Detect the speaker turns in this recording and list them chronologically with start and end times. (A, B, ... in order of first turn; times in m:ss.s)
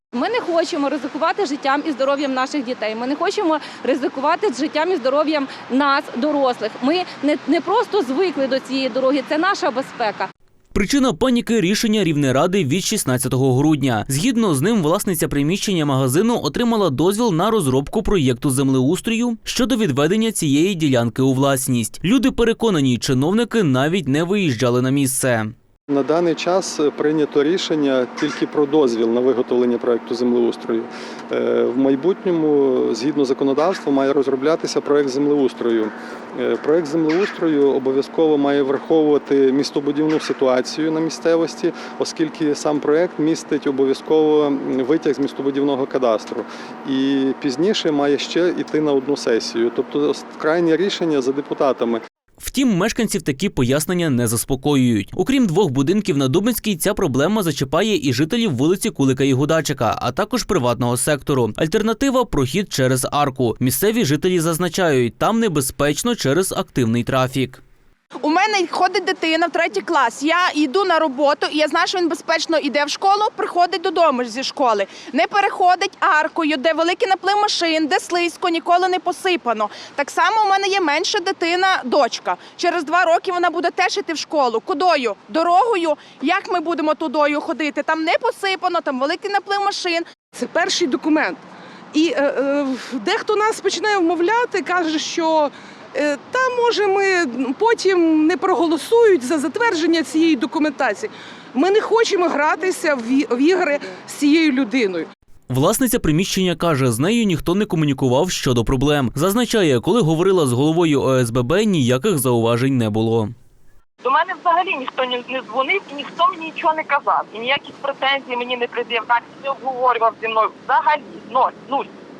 0:00.1-0:10.3 A
0:10.7-0:25.5 B
0:25.9-0:52.0 C
0:52.4-1:07.6 B
1:08.2-1:30.0 D
1:30.3-1:45.1 E
1:45.5-1:53.3 B
1:54.0-2:01.9 F